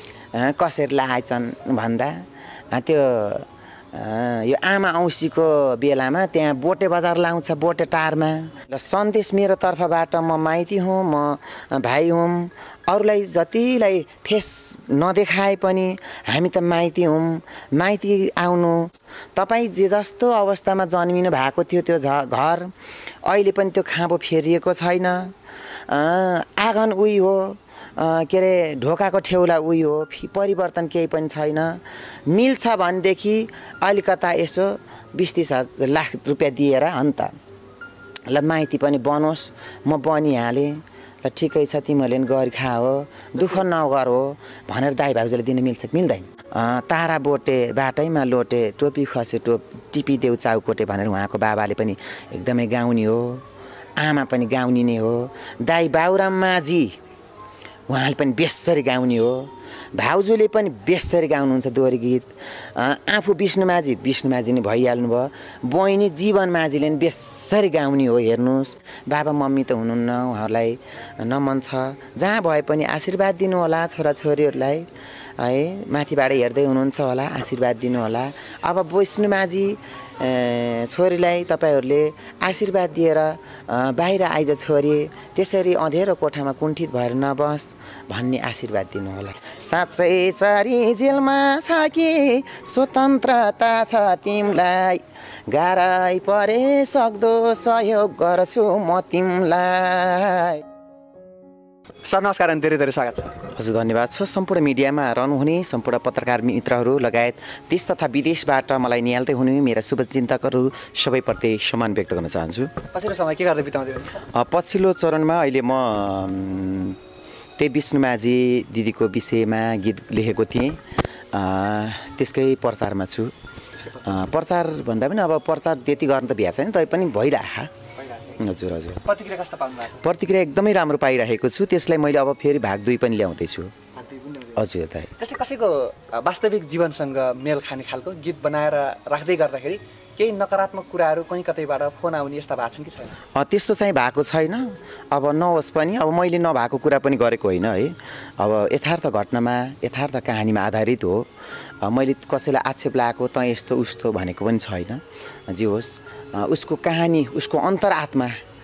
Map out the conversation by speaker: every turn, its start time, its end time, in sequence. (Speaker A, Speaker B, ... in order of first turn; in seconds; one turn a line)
Speaker A: 0.3-22.7
Speaker A: 23.2-25.3
Speaker A: 25.9-37.3
Speaker A: 38.3-53.4
Speaker A: 54.0-57.0
Speaker A: 57.9-74.9
Speaker A: 75.4-100.6
Speaker B: 102.0-103.4
Speaker A: 103.5-112.7
Speaker B: 112.9-114.3
Speaker A: 114.3-117.0
Speaker A: 117.6-120.8
Speaker A: 121.3-123.3
Speaker B: 123.8-124.2
Speaker A: 124.0-127.7
Speaker B: 128.0-128.4
Speaker A: 128.4-129.1
Speaker B: 129.0-130.1
Speaker A: 130.0-133.7
Speaker B: 133.9-134.6
Speaker A: 134.6-135.1
Speaker B: 135.2-143.2
Speaker A: 143.3-151.3
Speaker A: 151.8-158.4